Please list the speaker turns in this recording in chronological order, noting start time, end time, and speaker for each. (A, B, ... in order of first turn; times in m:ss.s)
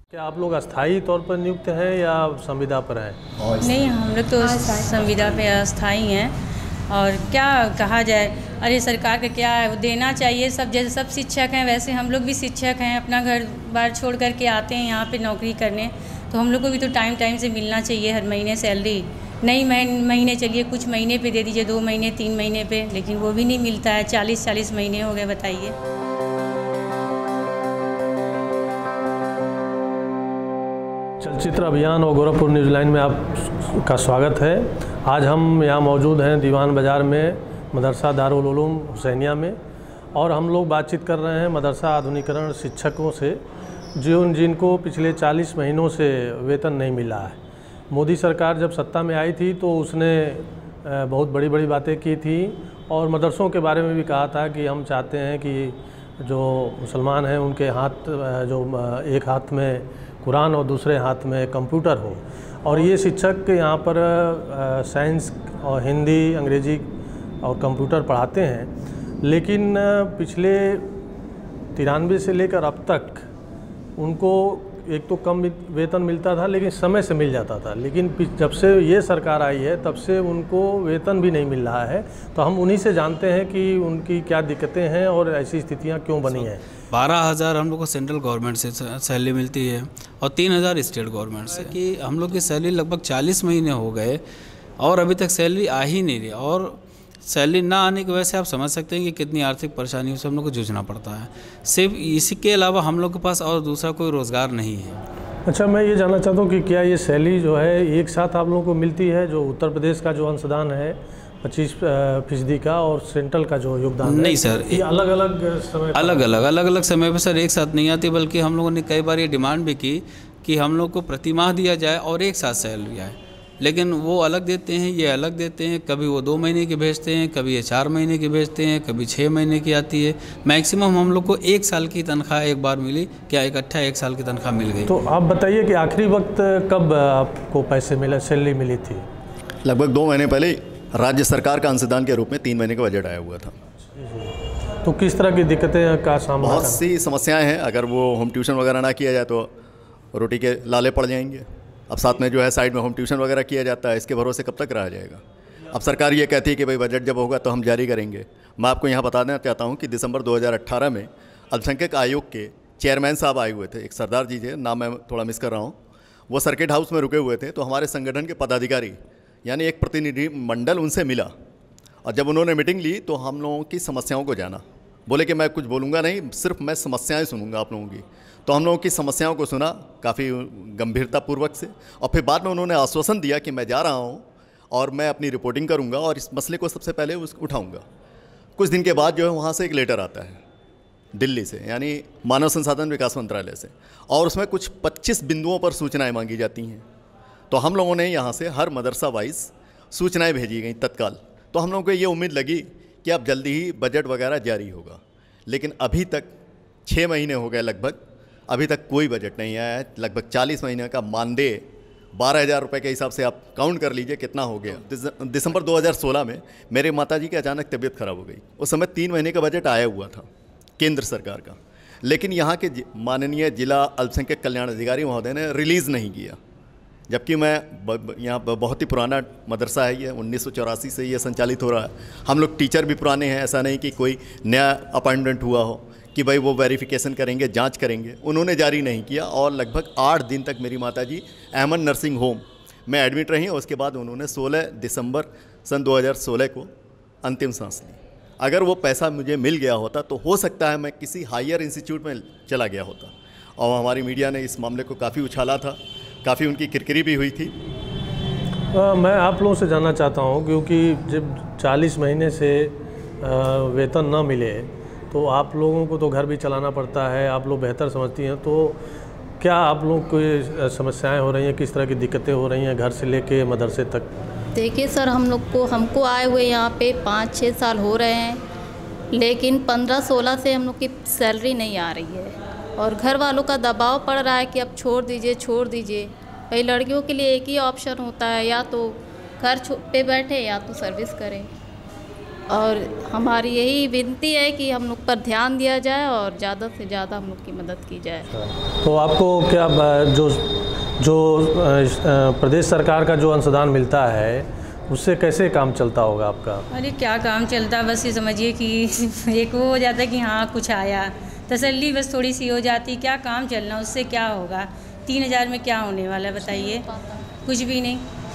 0:00.1-0:03.2 A
0:03.4-0:03.8 B
0:03.6-0:06.3 C
0:06.9-0:25.7 C
0:31.2-0:39.6 A
0:40.1-0:43.4 A
0:44.0-0:47.4 A
0:47.9-1:06.9 A
1:07.4-1:08.7 A
1:09.2-1:10.8 A
1:11.7-1:13.3 A
1:14.0-1:26.6 A
1:26.2-1:34.2 D
1:34.8-1:45.0 D
1:45.4-1:56.3 A
1:54.0-1:54.8 D
1:55.9-2:14.9 D
2:14.8-2:19.0 A
2:19.6-2:23.5 B
2:23.8-2:26.8 A
2:26.4-2:29.5 B
2:30.1-2:45.8 B
2:46.3-2:51.3 B
2:52.0-3:07.8 B
3:08.6-3:10.4 B
3:11.1-3:16.8 B
3:17.5-3:26.3 B
3:26.8-3:40.3 B
3:40.8-3:46.4 B
3:47.1-4:06.7 B
4:07.2-4:17.5 B
4:18.7-4:28.8 A
4:29.4-4:34.1 A
4:34.5-4:38.4 E
4:39.1-4:51.5 E
4:52.5-4:58.2 E
4:58.3-5:06.6 A
5:06.7-5:16.8 C
5:16.3-5:17.4 E
5:17.4-5:18.0 C